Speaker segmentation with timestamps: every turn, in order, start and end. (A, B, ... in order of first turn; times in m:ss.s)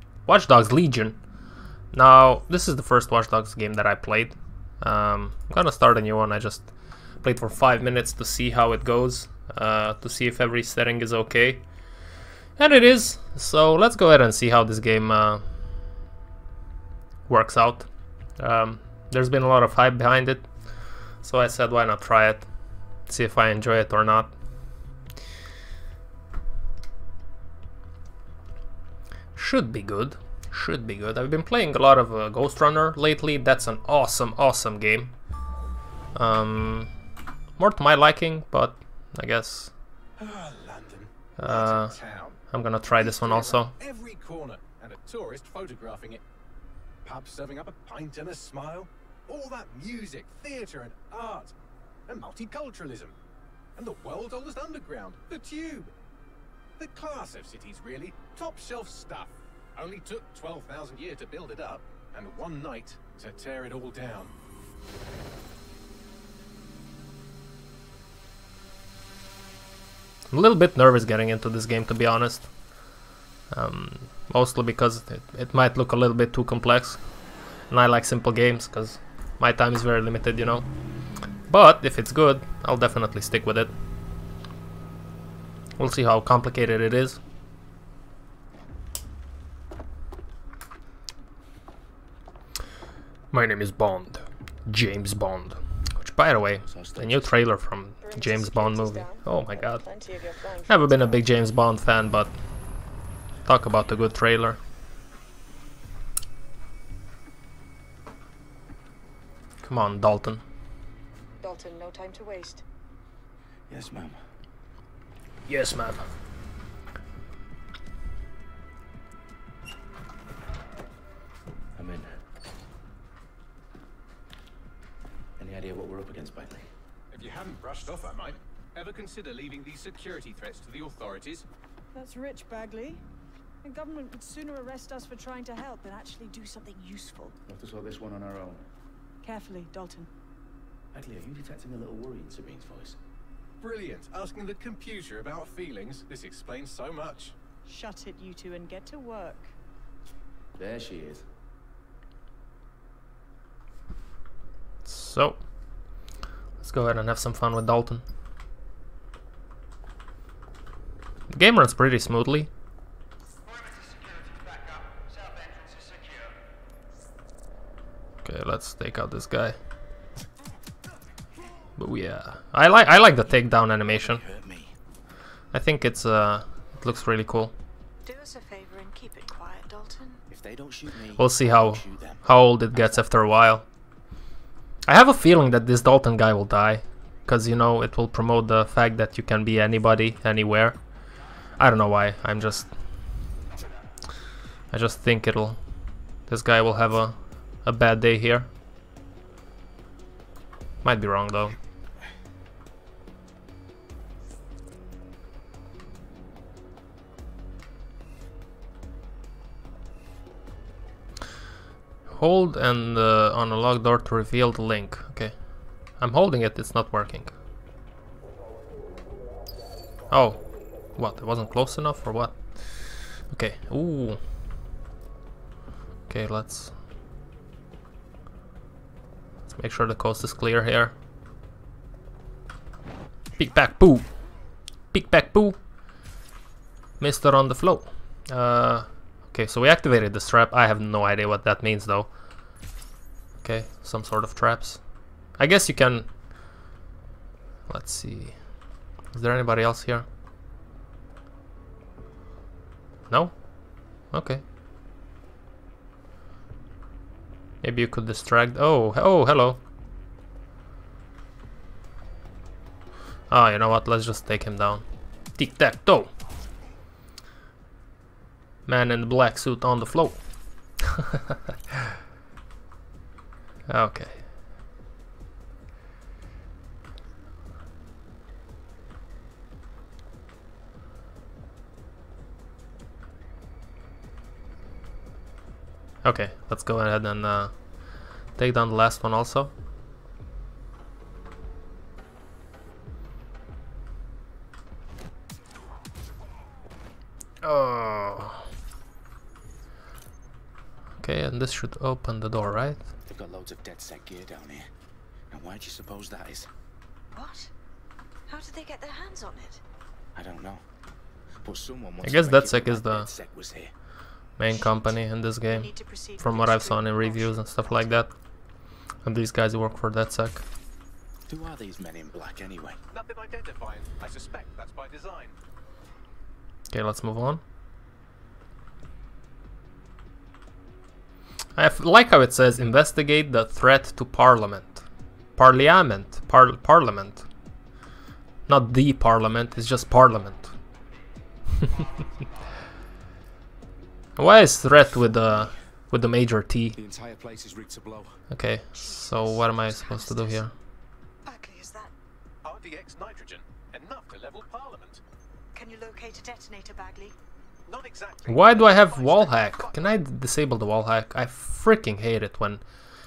0:00.2-0:01.2 A
0:01.9-0:11.6 A
0:12.6-0:15.4 A
0:17.3-0:20.5 A
0:21.2-0:22.5 A
0:23.1-0:24.3 A
0:29.4-0:35.2 A
0:36.1-0:36.9 A
0:37.6-0:39.7 A
0:40.2-0:42.4 B
0:41.4-0:42.0 A
0:42.5-0:43.7 A
0:43.0-0:46.2 B
0:47.0-0:51.5 B
0:52.1-0:53.1 B
0:53.8-0:55.9 B
0:56.8-1:04.3 B
1:10.3-1:12.9 A
1:13.5-1:17.2 A
1:17.7-1:20.7 A
1:21.5-1:23.7 A
1:25.8-1:27.2 A
1:33.3-1:40.0 A
1:36.7-1:37.4 C
1:38.0-1:41.3 D
1:40.6-1:42.4 A
1:43.4-1:44.6 A
1:49.6-1:50.4 A
1:51.4-1:52.6 D
1:53.7-1:54.2 C
1:55.5-1:56.1 A
2:01.8-2:02.2 C
2:05.4-2:06.7 C
2:07.1-2:11.4 B
2:11.9-2:13.0 E
2:13.6-2:17.4 E
2:17.4-2:18.6 C
2:19.2-2:20.1 E
2:20.9-2:23.0 C
2:23.6-2:27.3 B
2:27.7-2:29.5 E
2:30.6-2:31.2 C
2:34.8-2:35.4 A
2:36.6-2:38.0 A
2:41.3-2:42.5 A
2:48.2-2:49.6 A
2:51.8-2:54.2 A
2:53.8-2:54.8 C
2:55.5-2:57.5 A
2:58.0-3:00.2 D
3:00.3-3:03.0 C
3:01.2-3:03.6 A
3:04.8-3:10.8 A
3:11.6-3:12.7 A
3:14.7-3:15.6 A
3:16.3-3:18.5 A
3:20.8-3:21.6 A
3:32.1-3:35.4 A
3:36.0-3:37.3 A
3:40.1-3:40.4 A
3:40.9-3:44.2 A
3:46.1-3:46.7 A
3:49.5-3:50.9 A
3:53.4-3:54.1 A
3:54.9-3:55.6 A
3:57.0-4:02.1 A
4:03.4-4:04.8 A
4:05.4-4:06.1 A
4:07.7-4:08.4 A
4:09.1-4:10.0 A
4:13.1-4:14.4 A
4:17.6-4:19.6 A
4:23.3-4:24.8 A
4:25.3-4:26.1 A
4:28.6-4:30.9 A
4:33.7-4:34.3 A
4:46.0-4:49.5 A
4:57.4-4:58.4 A
5:01.0-5:02.8 A
5:03.0-5:04.7 C
5:05.3-5:06.5 C
5:07.1-5:07.5 D
5:08.3-5:09.6 D
5:10.1-5:10.6 C
5:11.4-5:13.7 C
5:12.0-5:13.1 A
5:14.4-5:18.1 A
5:14.5-5:18.0 D
5:19.0-5:20.4 A
5:21.3-5:22.8 C
5:22.9-5:25.4 B
5:26.7-5:27.4 A
5:31.6-5:34.8 A
5:35.4-5:37.3 A
5:38.5-5:40.5 A
5:44.2-5:46.8 A
5:46.7-5:48.2 C
5:48.3-5:50.5 A
5:48.7-5:50.4 D
5:51.2-5:51.9 D
5:52.4-5:55.0 B
5:55.5-5:57.2 D
5:57.7-6:00.0 B
5:58.3-6:02.6 A